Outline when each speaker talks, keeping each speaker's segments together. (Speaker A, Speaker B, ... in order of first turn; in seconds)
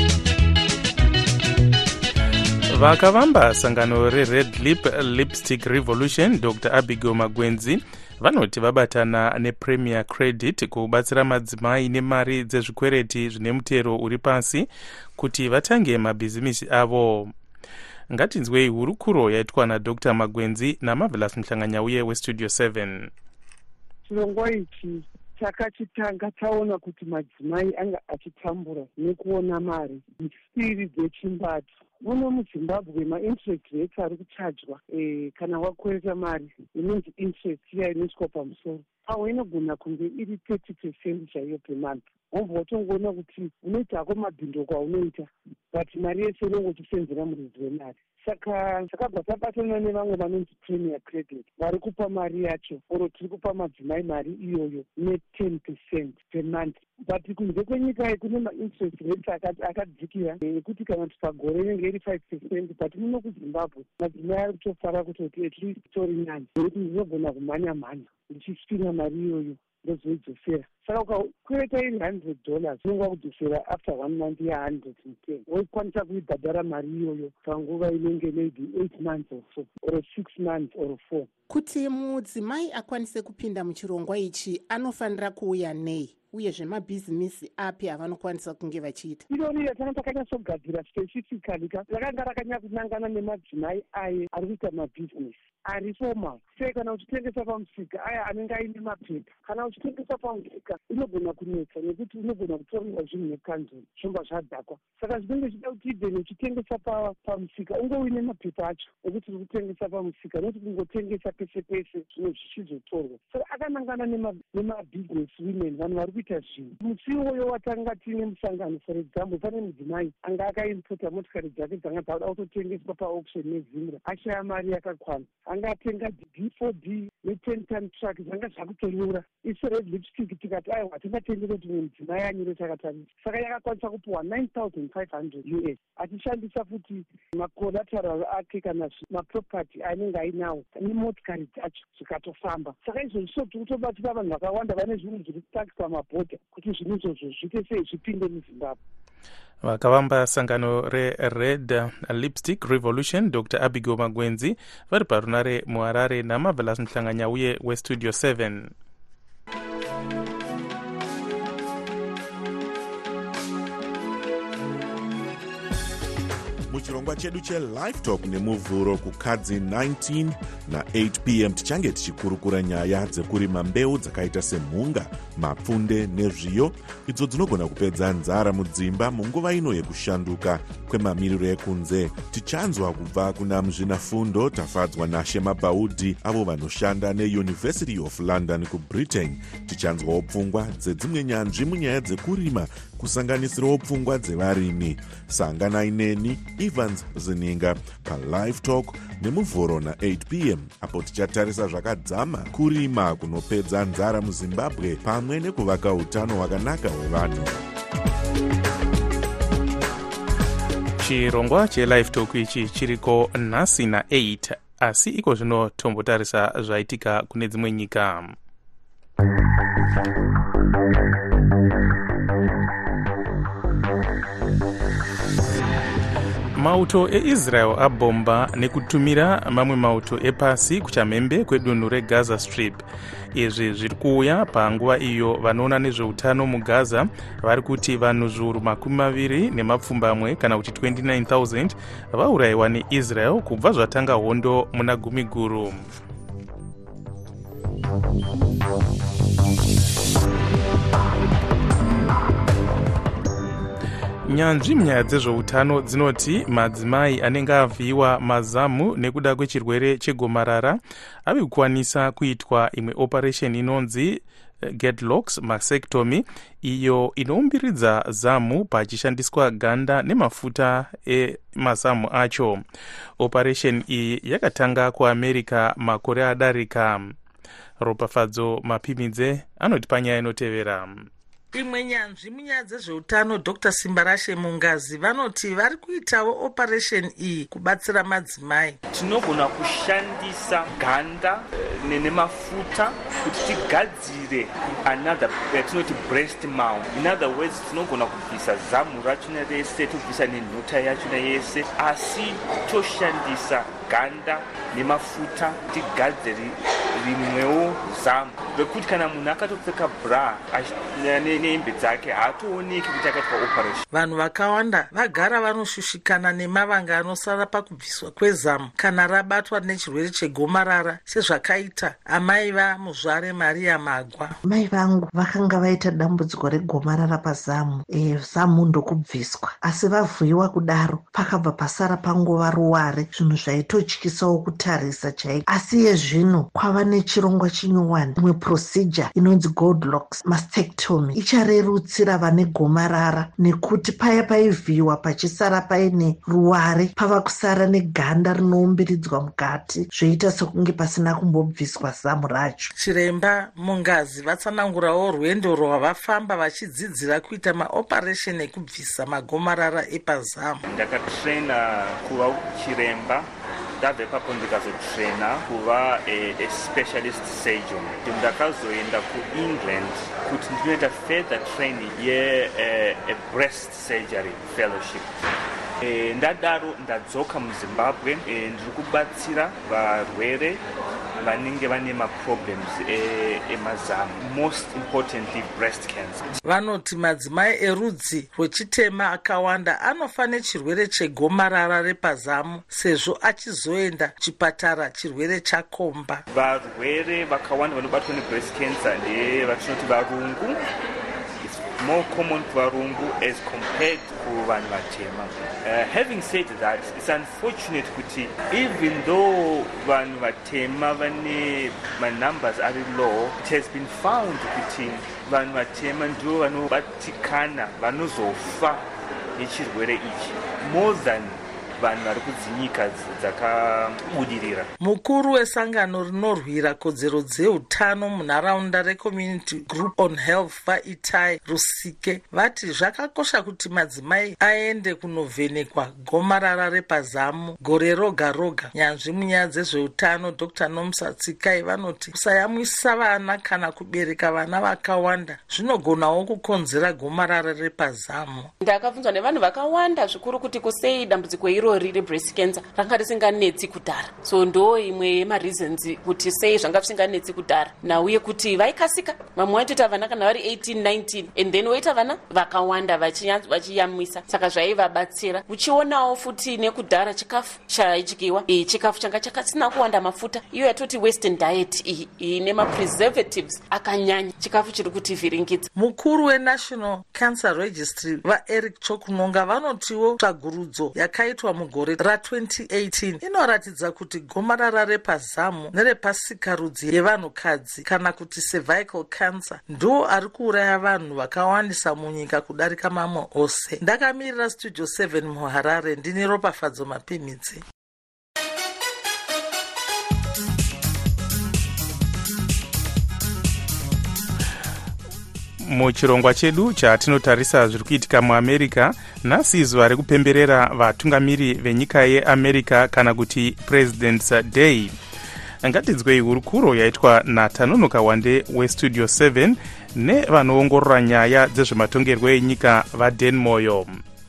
Speaker A: 2.7-14.7, 15.2-17.3, 18.1-23.1, 149.6-158.7, 211.0-218.3, 226.6-232.8, 233.3-245.8, 254.3-272.6, 273.2-277.1, 277.8-281.1, 505.6-514.9, 515.6-524.0
Speaker B: 24.1-81.2, 89.3-148.8
Speaker C: 81.5-89.2
Speaker D: 166.7-207.6
Speaker E: 281.5-288.8, 313.9-324.4, 352.8-360.6, 386.4-396.2, 424.8-448.5, 475.7-497.6
Speaker F: 288.9-313.8, 360.7-363.3, 363.8-375.1, 375.8-380.6, 381.2-386.2, 396.3-400.6, 401.8-418.8, 419.4-424.7
Speaker G: 293.1-293.6, 422.1-424.5, 448.6-475.6
Speaker H: 324.4-352.7